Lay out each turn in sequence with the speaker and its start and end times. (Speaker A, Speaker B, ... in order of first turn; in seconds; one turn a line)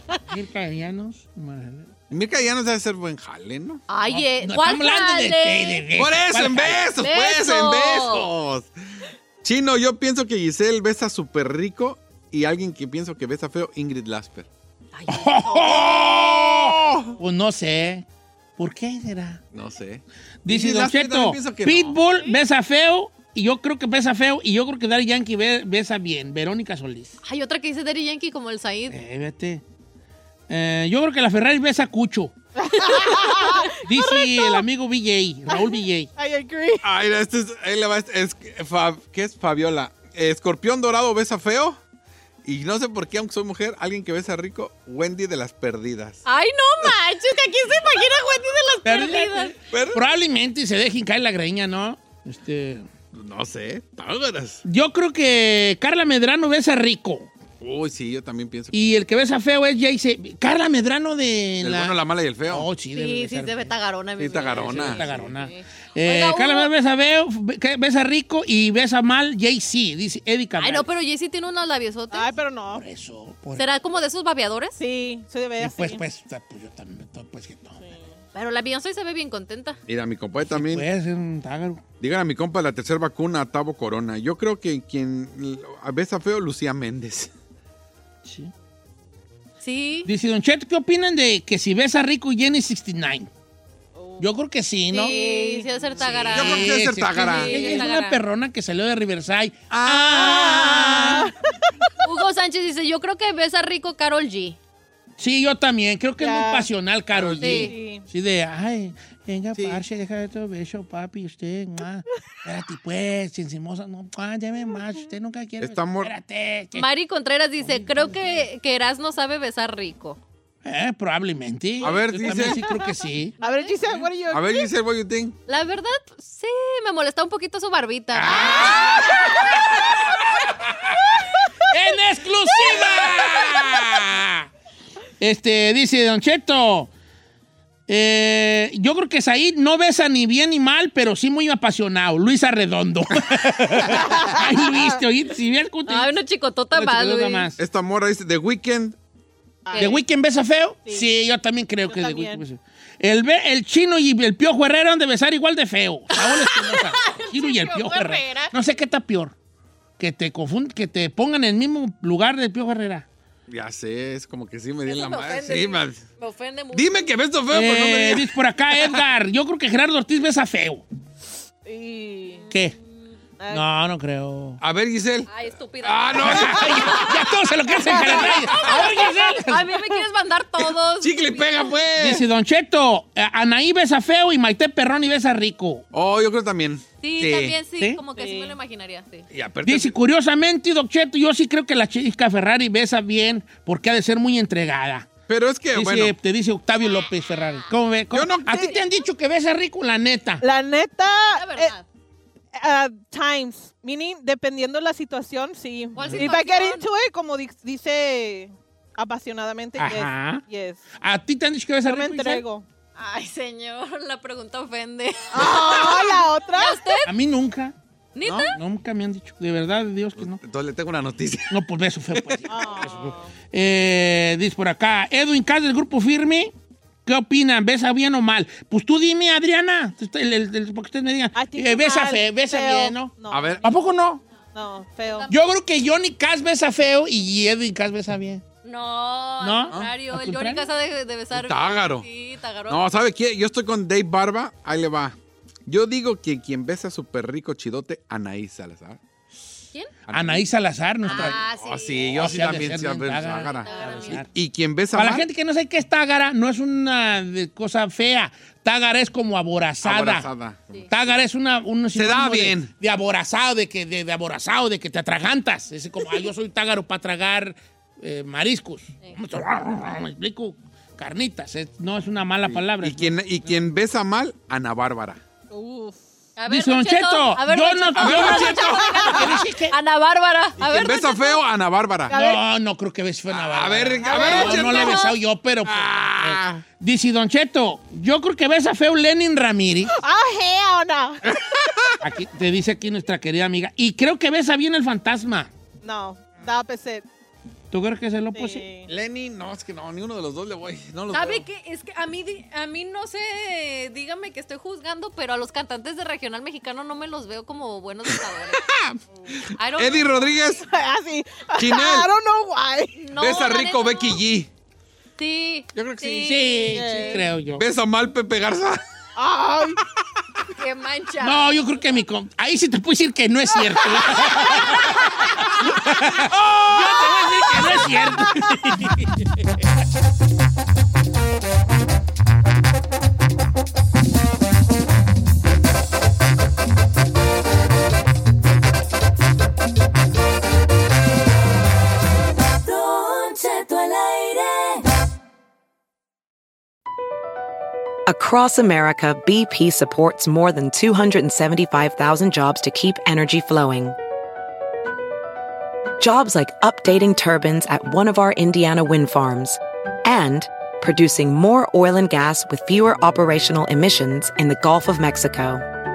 Speaker A: 0.3-1.9
Speaker B: 2.1-3.8
Speaker C: 3.9-5.8
Speaker A: 4.1-6.9
Speaker B: 6.0-8.7
Speaker C: 7.0-8.3
Speaker B: 9.4-14.5
Speaker C: 14.9-16.7
Speaker A: 15.1-18.1
Speaker B: 15.8-17.1
Speaker A: 18.6-19.4
Speaker B: 19.5-22.0
Speaker A: 20.4-27.2
Speaker C: 27.2-29.0
Speaker A: 28.9-29.6
Speaker A: 30.5-32.3
Speaker D: 32.6-34.6
Speaker C: 32.9-33.7
Speaker A: 33.8-36.1
Speaker D: 35.5-36.8
Speaker B: 36.8-41.8
Speaker B: 42.4-46.2
Speaker C: 46.2-49.5
Speaker A: 48.9-52.9
Speaker B: 49.7-50.0
Speaker B: 53.1-54.6
Speaker A: 54.6-57.3
Speaker B: 57.6-58.8
Speaker A: 58.7-63.7
Speaker B: 61.6-62.7
Speaker C: 62.9-66.7
Speaker B: 64.2-65.3
Speaker A: 64.5-70.9
Speaker C: 70.6-72.3
Speaker D: 72.1-72.8
Speaker A: 72.7-73.7
Speaker C: 73.6-74.8
Speaker D: 74.8-76.0
Speaker A: 75.6-77.8
Speaker D: 77.8-78.2
Speaker C: 78.3-79.8
Speaker B: 79.9-80.9
Speaker A: 80.4-81.8
Speaker B: 82.0-87.3
Speaker A: 88.2-88.5
Speaker C: 89.6-90.1
Speaker A: 90.0-93.3
Speaker D: 94.0-94.3
Speaker A: 94.2-95.1
Speaker C: 94.9-96.7
Speaker D: 95.0-96.5
Speaker A: 96.0-101.3
Speaker B: 96.2-97.8
Speaker D: 97.3-97.8
Speaker C: 97.4-98.2
Speaker B: 99.7-101.2
Speaker D: 101.0-101.3
Speaker C: 102.0-104.6
Speaker A: 105.2-116.9
Speaker D: 106.2-106.7
Speaker B: 107.1-107.7
Speaker C: 107.4-107.8
Speaker D: 107.6-108.0
Speaker B: 109.5-109.8
Speaker B: 115.6-116.2
Speaker C: 116.8-120.2
Speaker A: 117.6-118.5
Speaker A: 120.7-123.3
Speaker B: 121.8-122.6
Speaker D: 123.4-124.7
Speaker C: 123.4-123.8
Speaker B: 124.3-125.4
Speaker C: 125.5-129.6
Speaker A: 128.1-129.9
Speaker B: 128.6-129.2
Speaker A: 131.7-134.5
Speaker B: 132.7-133.9
Speaker A: 135.2-136.9
Speaker A: 137.9-146.1
Speaker D: 143.9-145.0
Speaker C: 145.9-147.5
Speaker A: 146.7-147.6
Speaker B: 147.6-149.0
Speaker D: 149.7-150.0
Speaker C: 149.7-150.0
Speaker A: 149.8-159.3
Speaker D: 151.9-152.4
Speaker C: 156.1-158.5
Speaker A: 160.0-163.1
Speaker B: 163.5-166.0
Speaker C: 164.9-167.2
Speaker B: 166.7-168.3
Speaker A: 167.5-170.9
Speaker D: 171.7-172.5
Speaker C: 172.4-173.1
Speaker A: 172.5-172.8
Speaker D: 173.4-173.7
Speaker A: 173.5-174.6
Speaker B: 174.6-177.1
Speaker C: 175.3-181.8
Speaker A: 176.2-179.7
Speaker B: 178.1-178.8
Speaker D: 179.7-180.0
Speaker B: 180.6-182.3
Speaker A: 182.0-185.9
Speaker B: 185.9-187.6
Speaker C: 187.0-189.3
Speaker D: 188.2-188.6
Speaker B: 189.3-190.0
Speaker A: 189.6-195.1
Speaker B: 195.3-196.2
Speaker A: 195.7-200.4
Speaker B: 198.1-198.8
Speaker D: 200.4-201.7
Speaker C: 201.2-201.8
Speaker D: 202.6-210.8
Speaker C: 205.9-206.8
Speaker A: 209.8-210.4
Speaker A: 211.0-212.4
Speaker D: 211.9-212.7
Speaker C: 213.0-217.1
Speaker D: 215.3-217.1
Speaker A: 217.1-217.8
Speaker C: 218.2-218.6
Speaker B: 218.2-218.5
Speaker A: 218.5-220.4
Speaker B: 220.2-221.6
Speaker A: 221.5-226.5
Speaker D: 222.5-223.3
Speaker A: 227.1-234.2
Speaker D: 231.3-233.6
Speaker B: 233.3-233.7
Speaker D: 234.6-235.3
Speaker A: 235.3-238.4
Speaker C: 238.6-242.8
Speaker A: 239.4-240.7
Speaker B: 241.3-242.1
Speaker B: 242.7-245.2
Speaker B: 245.7-249.0
Speaker B: 250.1-250.5
Speaker A: 250.1-251.4
Speaker C: 251.0-252.7
Speaker B: 251.1-255.3
Speaker A: 252.2-254.3
Speaker C: 253.5-254.2
Speaker A: 254.9-260.3
Speaker B: 259.8-260.8
Speaker A: 260.9-273.7
Speaker B: 261.9-262.7
Speaker B: 272.4-275.2
Speaker D: 275.5-275.9
Speaker C: 276.4-281.4
Speaker A: 276.5-279.8
Speaker B: 278.0-278.9
Speaker B: 280.6-282.1
Speaker D: 282.1-282.4
Speaker A: 282.1-289.9
Speaker B: 283.3-285.1
Speaker D: 284.0-284.9
Speaker C: 284.4-285.1
Speaker B: 285.6-286.6
Speaker D: 289.9-291.2
Speaker B: 291.3-292.0
Speaker A: 292.0-295.5
Speaker D: 295.8-297.1
Speaker A: 297.7-298.6
Speaker D: 298.3-298.9
Speaker B: 298.9-301.4
Speaker C: 301.1-308.6
Speaker B: 308.1-310.6
Speaker C: 309.6-310.6
Speaker D: 310.6-313.0
Speaker B: 311.6-312.1
Speaker C: 313.0-314.2
Speaker B: 313.1-314.5
Speaker C: 315.2-317.2
Speaker B: 315.7-316.5
Speaker A: 316.2-317.6
Speaker D: 316.7-317.3
Speaker B: 317.5-318.8
Speaker D: 319.2-319.8
Speaker C: 320.6-321.6
Speaker A: 321.2-329.3
Speaker C: 324.2-324.8
Speaker B: 325.9-327.8
Speaker E: 342.7-344.8
Speaker F: 348.1-354.0
Speaker F: 356.0-365.6